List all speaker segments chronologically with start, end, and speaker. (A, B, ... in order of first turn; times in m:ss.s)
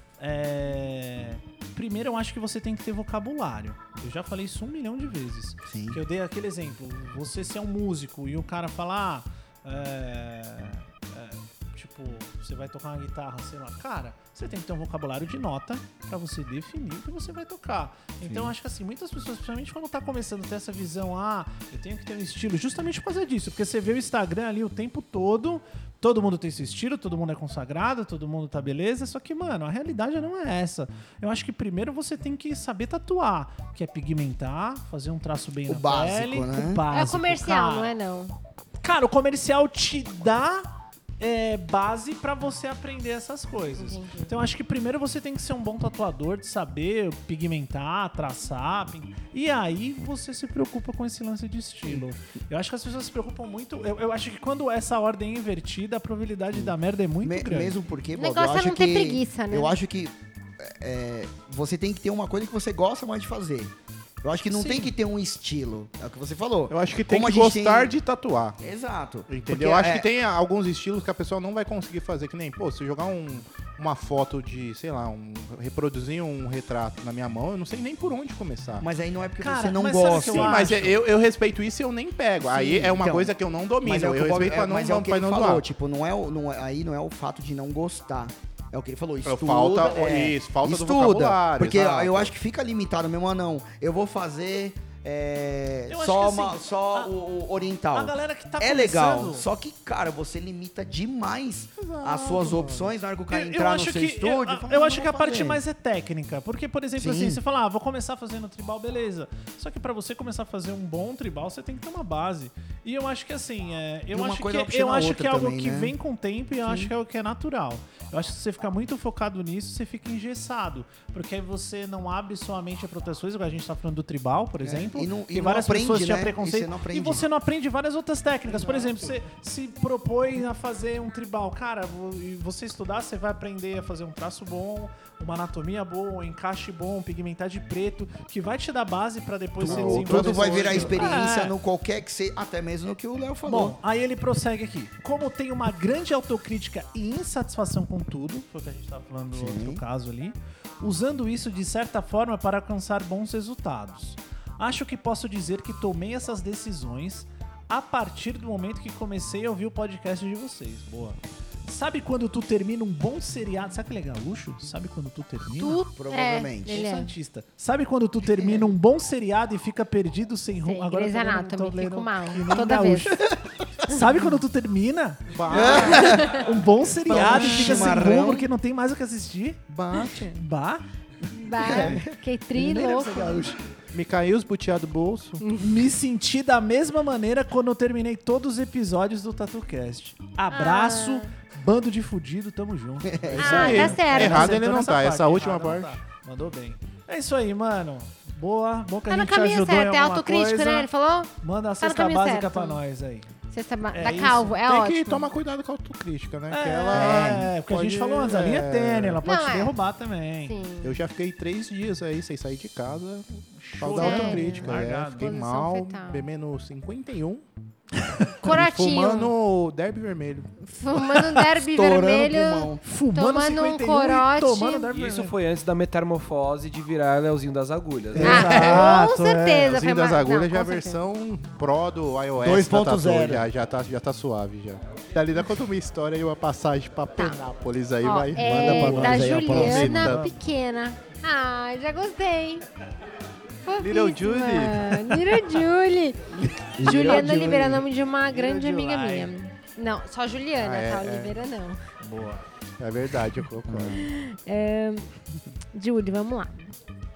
0:00.2-0:37.9 A
0:05.6-0:06.0 B
0:18.2-0:18.5 B
0:35.7-0:36.8 B
0:36.9-0:38.4 C
0:38.8-0:57.8 A
0:43.8-0:44.3 C
0:56.5-1:08.0 B
0:58.2-0:59.8 C
1:04.5-1:04.9 A
1:06.7-1:08.6 D
1:08.6-1:10.1 B
1:09.3-1:18.9 D
1:18.8-1:21.0 B
1:19.4-1:20.9 A
1:20.0-1:25.6 D
1:22.4-1:45.6 B
1:29.2-1:32.3 D
1:35.9-1:37.1 A
1:37.9-1:39.4 A
1:41.8-1:42.9 D
1:43.3-2:21.5 A
1:47.0-1:47.4 B
1:54.1-1:55.9 B
1:56.6-1:56.9 B
2:04.6-2:07.2 B
2:08.5-2:09.1 D
2:19.6-2:21.2 D
2:19.6-2:23.8 B
2:23.4-2:45.8 A
2:29.3-2:29.8 B
2:45.6-2:47.1 C
2:45.9-2:46.8 B
2:46.7-3:00.8 A
2:48.3-2:48.7 B
2:50.6-2:53.2 C
2:55.3-2:56.5 D
2:55.5-2:56.4 B
2:55.6-2:56.4 C
2:57.0-2:58.1 D
2:57.0-2:58.5 B
2:59.7-3:00.3 D
3:01.3-3:03.5 C
3:01.6-3:03.6 A
3:01.6-3:02.1 B
3:03.9-3:05.4 D
3:05.4-3:05.8 C
3:05.6-3:20.9 A
3:10.5-3:11.3 C
3:13.0-3:13.9 B
3:13.4-3:14.6 C
3:13.4-3:16.0 D
3:19.1-3:22.8 C
3:21.4-3:23.3 A
3:23.5-3:25.3 C
3:23.9-3:24.6 A
3:24.6-3:29.2 D
3:26.5-3:30.6 A
3:26.9-3:27.5 B
3:29.2-3:29.8 C
3:30.5-3:31.0 C
3:30.8-3:37.4 D
3:33.6-3:35.3 A
3:33.9-3:36.3 C
3:38.4-3:39.3 C
3:38.4-3:40.6 D
3:40.6-3:44.9 C
3:41.6-3:42.8 B
3:42.8-3:45.3 A
3:44.9-3:48.7 E
3:48.1-3:49.6 A
3:48.2-3:49.0 D
3:48.2-3:51.0 C
3:49.6-4:00.3 D
3:52.4-3:53.4 B
3:57.2-3:57.4 C
3:58.0-4:02.6 C
3:58.4-4:00.2 B
3:58.5-4:00.3 A
4:03.6-4:11.8 C
4:03.8-4:05.4 D
4:06.7-4:07.8 B
4:06.8-4:07.6 A
4:08.3-4:09.3 A
4:10.6-4:11.4 D
4:12.0-4:12.4 A
4:12.8-4:14.0 D
4:13.7-4:14.0 B
4:13.9-4:15.1 C
4:15.7-4:16.7 C